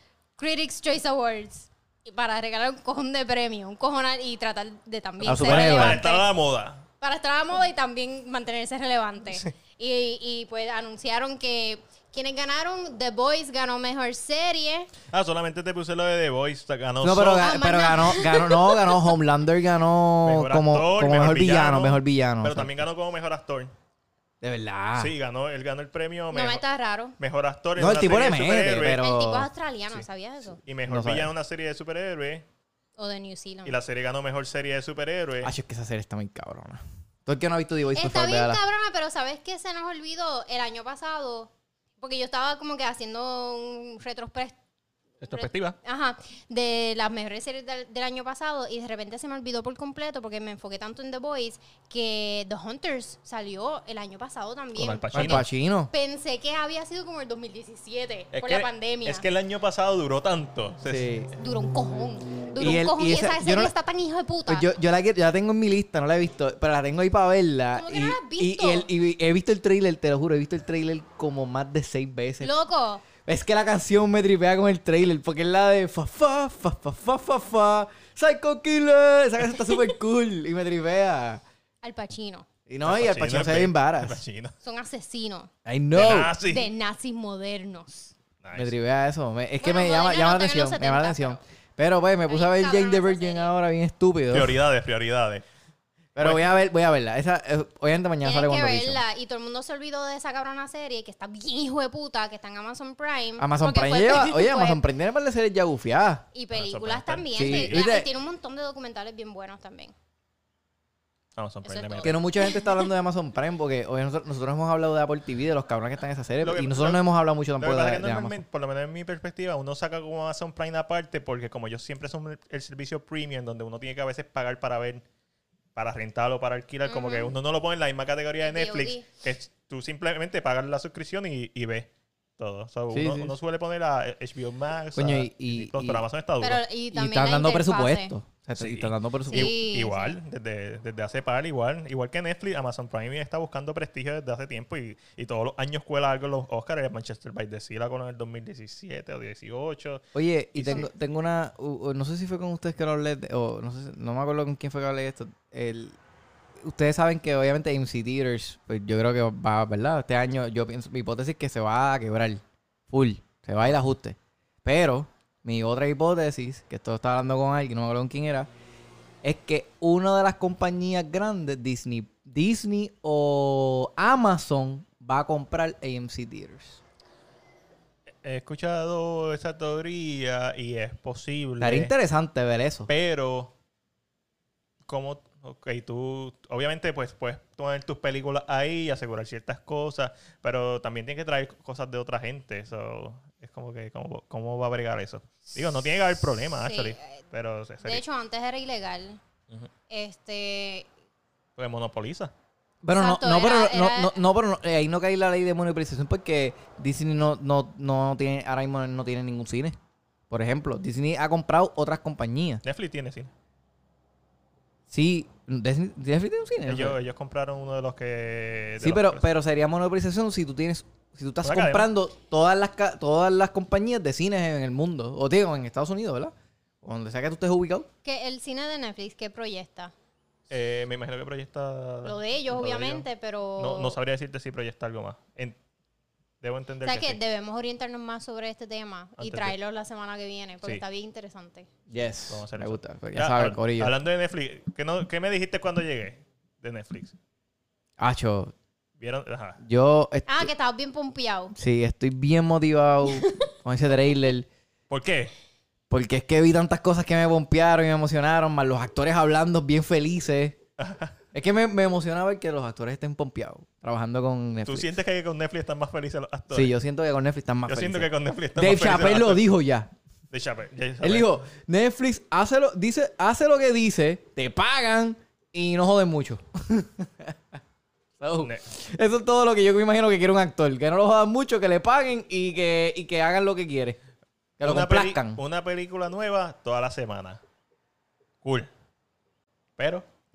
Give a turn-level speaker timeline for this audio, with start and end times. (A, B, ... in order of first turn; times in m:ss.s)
0:00.4-0:06.3 A
0:05.2-0:06.0 B
0:05.3-0:06.8 C
0:07.0-0:14.9 A
0:15.1-0:17.6 C
0:17.0-0:22.7 B
0:17.4-0:19.1 A
0:20.2-0:23.7 C
0:24.4-0:25.1 B
0:25.0-0:26.6 C
0:26.3-0:27.2 A
0:27.2-0:29.0 C
0:27.8-0:29.5 B
0:28.8-0:30.6 A
0:30.6-0:32.4 C
0:30.8-0:31.3 B
0:33.0-0:33.8 A
0:33.6-0:35.5 C
0:35.4-0:38.6 B
0:37.9-0:44.6 A
0:45.2-0:45.8 C
0:45.2-0:59.2 A
0:54.7-0:55.5 C
0:55.1-0:55.9 B
0:58.3-1:01.1 C
1:00.8-1:01.3 B
1:01.4-1:04.7 A
1:02.6-1:03.7 B
1:04.5-1:12.5 B
1:07.7-1:08.9 A
1:12.4-1:13.0 A
1:13.2-1:21.4 B
1:21.8-1:22.5 A
1:22.7-1:24.2 B
1:22.8-1:24.5 C
1:24.6-1:25.5 A
1:25.6-1:26.3 B
1:25.9-1:26.7 C
1:26.4-1:28.1 A
1:28.4-1:28.7 C
1:28.6-1:34.6 B
1:29.6-1:31.4 A
1:32.2-1:33.5 A
1:34.3-1:35.4 C
1:36.1-1:39.0 B
1:36.2-1:36.5 C
1:38.2-1:44.8 A
1:43.4-1:46.2 B
1:46.3-1:49.9 A
1:46.5-1:47.8 C
1:47.3-1:48.1 B
1:51.4-1:52.2 C
1:51.6-1:52.8 A
1:52.0-1:58.4 B
1:56.4-1:57.0 C
1:57.6-2:05.0 C
2:05.7-2:16.6 C
2:06.8-2:07.3 A
2:08.4-2:09.0 A
2:12.9-2:13.3 B
2:15.0-2:16.0 B
2:16.4-2:18.1 A
2:16.9-2:19.5 B
2:18.6-2:30.0 C
2:19.3-2:20.2 A
2:30.1-2:36.0 B
2:30.5-2:30.9 C
2:36.6-2:48.5 B
2:49.2-2:56.8 B
2:58.2-3:01.9 C
3:01.6-3:02.9 B
3:02.9-3:03.5 C
3:04.9-3:18.0 C
3:16.6-3:17.2 A
3:17.8-3:19.2 A
3:19.9-3:20.9 A
3:21.6-3:22.3 C
3:22.8-3:29.8 B
3:22.9-3:24.2 A
3:30.3-3:32.6 B
3:32.6-3:33.3 C
3:34.9-3:37.0 B
3:36.6-3:39.2 C
3:38.8-3:47.9 B
3:41.4-3:41.9 C
3:48.0-3:49.9 A
3:50.5-3:53.0 C
3:52.0-3:54.0 A
3:53.6-3:55.6 C
3:56.4-3:57.2 C
3:56.8-4:01.7 A
3:59.2-3:59.5 C
4:01.9-4:04.0 B
4:02.3-4:07.2 C
4:08.0-4:08.5 B
4:09.0-4:09.6 C
4:09.6-4:10.5 B
4:10.3-4:11.5 A
4:11.6-4:14.5 B
4:13.1-4:13.4 A
4:14.9-4:15.3 C
4:15.9-4:20.6 B
4:20.8-4:21.2 C
4:21.3-4:24.9 B
4:24.6-4:26.7 C
4:26.5-4:29.9 B
4:27.7-4:29.4 C
4:30.3-4:31.3 C
4:31.0-4:37.6 B
4:38.2-4:44.0 B
4:44.6-4:45.4 B
4:44.6-4:47.4 C
4:48.4-4:48.7 C
4:49.8-4:50.0 C